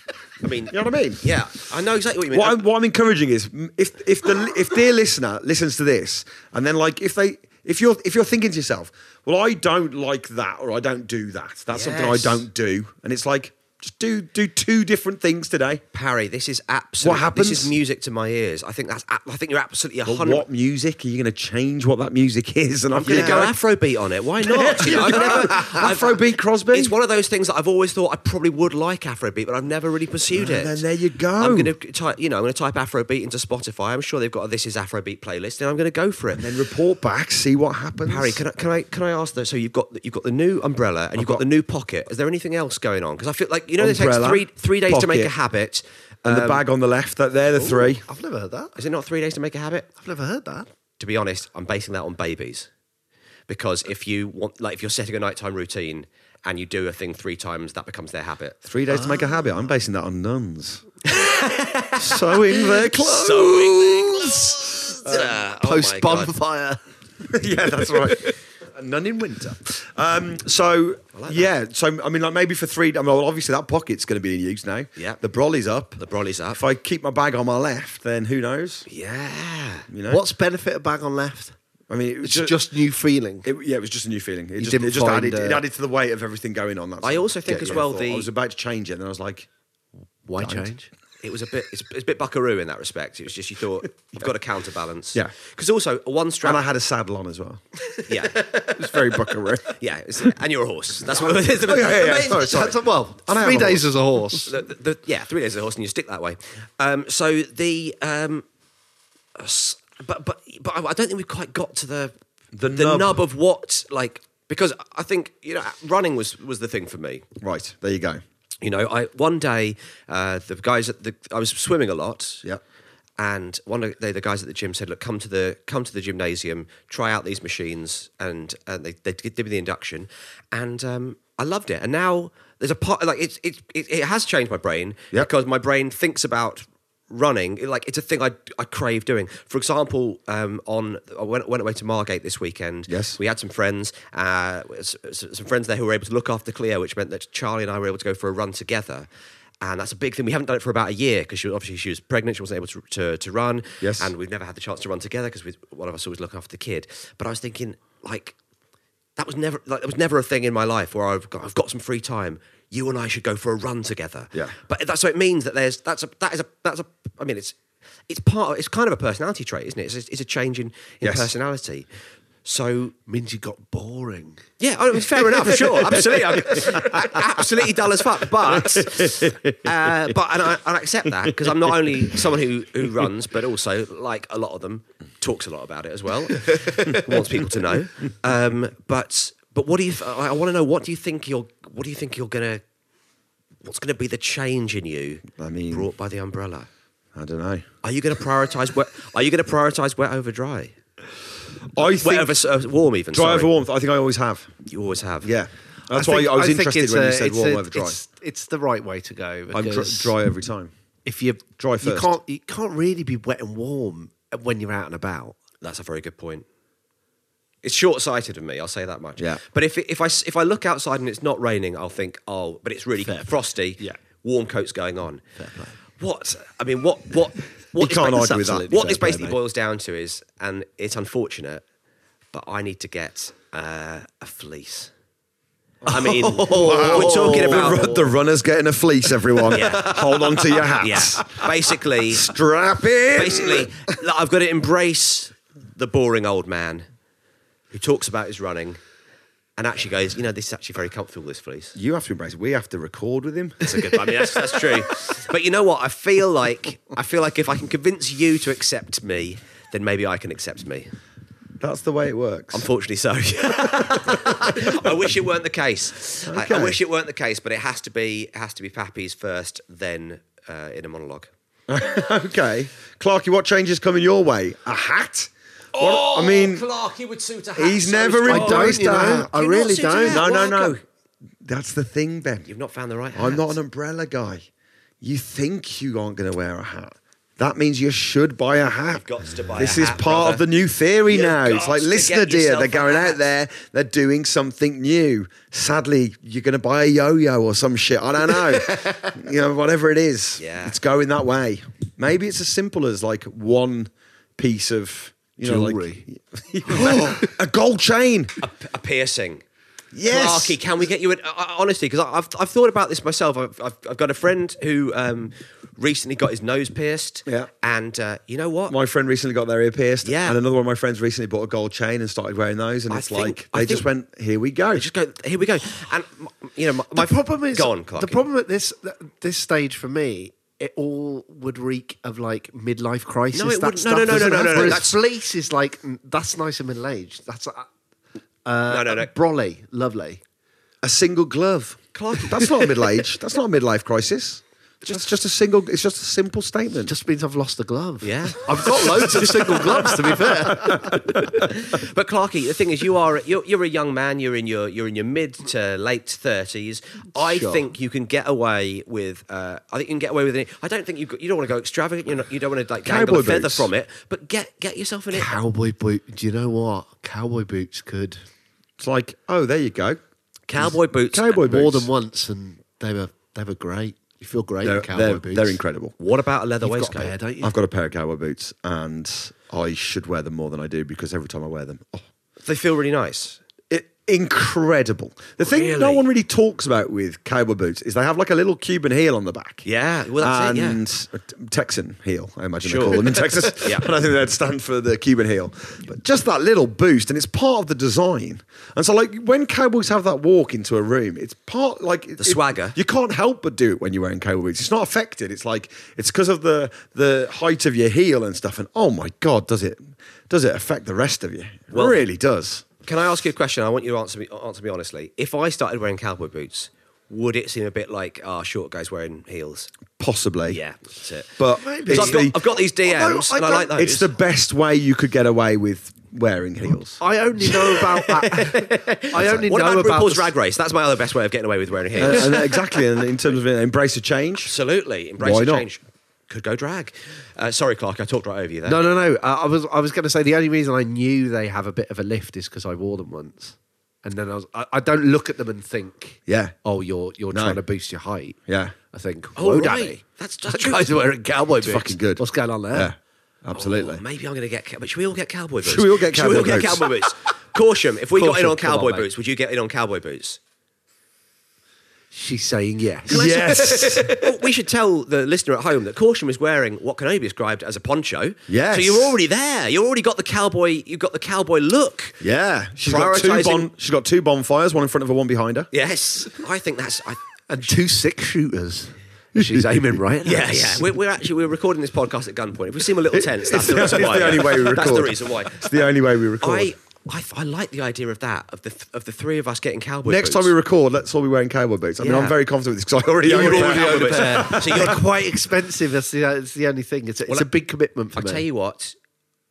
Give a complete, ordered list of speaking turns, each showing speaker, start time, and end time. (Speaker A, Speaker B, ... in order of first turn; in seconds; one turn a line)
Speaker A: 0.4-2.6
Speaker B: 0.7-1.3
Speaker B: 2.3-15.8
Speaker A: 11.7-12.4
Speaker A: 15.9-20.4
Speaker B: 17.0-17.7
Speaker B: 20.0-23.5
Speaker A: 22.9-30.8
Speaker B: 24.4-26.9
Speaker B: 30.3-31.7
Speaker A: 31.4-36.5
Speaker B: 36.3-38.4
Speaker A: 38.1-46.6
Speaker B: 41.1-41.4
Speaker B: 43.8-45.3
Speaker B: 46.2-48.0
Speaker C: 47.5-48.8
Speaker A: 48.8-49.9
Speaker C: 50.0-50.7
Speaker A: 51.0-52.7
Speaker A: 53.5-58.6
Speaker B: 58.6-60.9
Speaker A: 61.1-62.1
Speaker B: 62.0-64.3
Speaker A: 62.8-66.3
Speaker C: 64.0-66.8
Speaker B: 65.0-65.3
Speaker B: 67.3-76.0
Speaker A: 71.1-71.5
Speaker A: 76.0-76.6
Speaker B: 76.5-78.8
Speaker A: 78.9-79.9
Speaker B: 79.9-80.2
Speaker C: 80.1-81.5
Speaker B: 81.9-82.6
Speaker C: 82.2-83.5
Speaker B: 83.4-89.5
Speaker C: 84.6-85.6
Speaker A: 87.0-88.3
Speaker C: 90.2-90.9
Speaker B: 90.4-90.7
Speaker A: 91.2-96.6
Speaker B: 96.4-97.6
Speaker A: 98.1-98.6
Speaker B: 98.5-99.7
Speaker A: 99.7-102.7
Speaker B: 101.2-103.8
Speaker C: 102.3-104.5
Speaker A: 104.5-108.4
Speaker A: 109.3-112.1
Speaker B: 112.5-113.2
Speaker A: 112.7-117.2
Speaker B: 117.4-118.2
Speaker A: 118.6-122.4
Speaker A: 123.2-149.1
Speaker B: 142.9-143.2
Speaker A: 149.6-158.3
Speaker B: 153.8-154.1
Speaker A: 159.2-167.6
Speaker A: 168.1-171.8
Speaker B: 171.0-171.3
Speaker A: 172.4-172.9
Speaker C: 173.1-174.4
Speaker A: 174.6-192.6
Speaker B: 176.5-176.8
Speaker B: 178.5-179.7
Speaker A: 193.6-196.7
Speaker B: 195.4-195.9
Speaker B: 197.1-197.7
Speaker A: 197.8-200.7
Speaker B: 201.7-202.3
Speaker A: 201.8-203.5
Speaker B: 203.1-204.5
Speaker A: 204.7-205.3
Speaker B: 205.2-208.0
Speaker C: 205.9-210.1
Speaker B: 209.5-210.7
Speaker C: 211.0-215.4
Speaker B: 211.6-212.1
Speaker A: 215.6-216.4
Speaker A: 217.6-225.2
Speaker C: 223.0-224.0
Speaker C: 225.4-225.7
Speaker A: 226.0-231.6
Speaker B: 227.8-229.4
Speaker A: 232.3-234.9
Speaker B: 235.8-241.5
Speaker A: 235.9-238.0
Speaker C: 236.0-238.0
Speaker A: 239.5-240.2
Speaker A: 240.8-242.3
Speaker B: 242.1-243.7
Speaker A: 243.2-246.8
Speaker A: 247.7-248.8
Speaker A: 249.6-251.7
Speaker B: 251.8-254.4
Speaker A: 253.6-260.9
Speaker B: 261.6-262.6
Speaker A: 262.5-271.3
Speaker B: 264.1-264.7
Speaker B: 266.3-266.8
Speaker B: 271.7-276.7
Speaker A: 275.7-280.8
Speaker B: 277.6-279.3
Speaker C: 278.3-280.2
Speaker B: 280.0-280.8
Speaker B: 281.4-282.5
Speaker A: 282.4-283.6
Speaker B: 283.1-284.5
Speaker B: 285.0-308.4
Speaker A: 288.9-290.4
Speaker A: 291.1-293.2
Speaker A: 300.4-300.7
Speaker C: 305.4-306.0
Speaker A: 308.4-309.4
Speaker B: 309.9-310.6
Speaker A: 310.1-318.8
Speaker B: 318.7-324.9
Speaker A: 320.0-320.4
Speaker A: 322.9-323.9
Speaker A: 324.7-328.2
Speaker C: 326.9-337.7
Speaker A: 333.3-335.0
Speaker C: 338.4-340.2
Speaker A: 338.7-339.1
Speaker B: 340.8-346.9
Speaker A: 341.9-342.8
Speaker C: 346.9-351.0
Speaker A: 348.0-349.9
Speaker B: 349.2-349.4
Speaker B: 350.7-350.9
Speaker A: 351.2-365.3
Speaker C: 357.1-357.6
Speaker B: 362.8-363.7
Speaker C: 365.1-368.2
Speaker B: 368.8-370.0
Speaker A: 370.5-371.4
Speaker B: 370.6-371.9
Speaker C: 371.4-375.6
Speaker B: 374.6-375.9
Speaker A: 376.0-377.1
Speaker C: 376.6-377.5
Speaker B: 377.4-382.1
Speaker A: 382.4-383.4
Speaker B: 383.7-389.6
Speaker A: 385.4-386.0
Speaker A: 389.6-390.8
Speaker B: 390.2-412.6
Speaker A: 392.6-393.9
Speaker A: 402.2-402.8
Speaker A: 411.7-412.0
Speaker A: 412.8-419.7
Speaker B: 420.0-420.6
Speaker A: 420.5-424.1
Speaker B: 421.4-427.0
Speaker C: 421.5-422.3
Speaker C: 427.0-430.3
Speaker A: 427.7-432.5
Speaker B: 431.9-434.5
Speaker A: 434.4-438.8
Speaker B: 435.2-435.7
Speaker C: 438.6-448.4
Speaker B: 446.3-446.6
Speaker B: 447.3-447.6
Speaker B: 448.5-448.7
Speaker C: 448.9-452.9
Speaker A: 449.4-451.0
Speaker B: 451.6-454.0
Speaker A: 453.5-460.4
Speaker B: 455.6-456.9
Speaker C: 458.1-459.1
Speaker C: 462.1-464.2
Speaker B: 463.1-464.1
Speaker A: 463.1-472.2
Speaker B: 468.5-469.1
Speaker B: 472.2-475.7
Speaker A: 472.8-473.7
Speaker A: 475.7-477.2
Speaker C: 477.5-480.9
Speaker B: 479.3-479.9
Speaker A: 480.2-490.5
Speaker B: 483.1-486.7
Speaker B: 490.1-494.9
Speaker A: 492.0-492.4
Speaker A: 493.2-495.0
Speaker C: 493.2-498.4
Speaker A: 498.1-498.9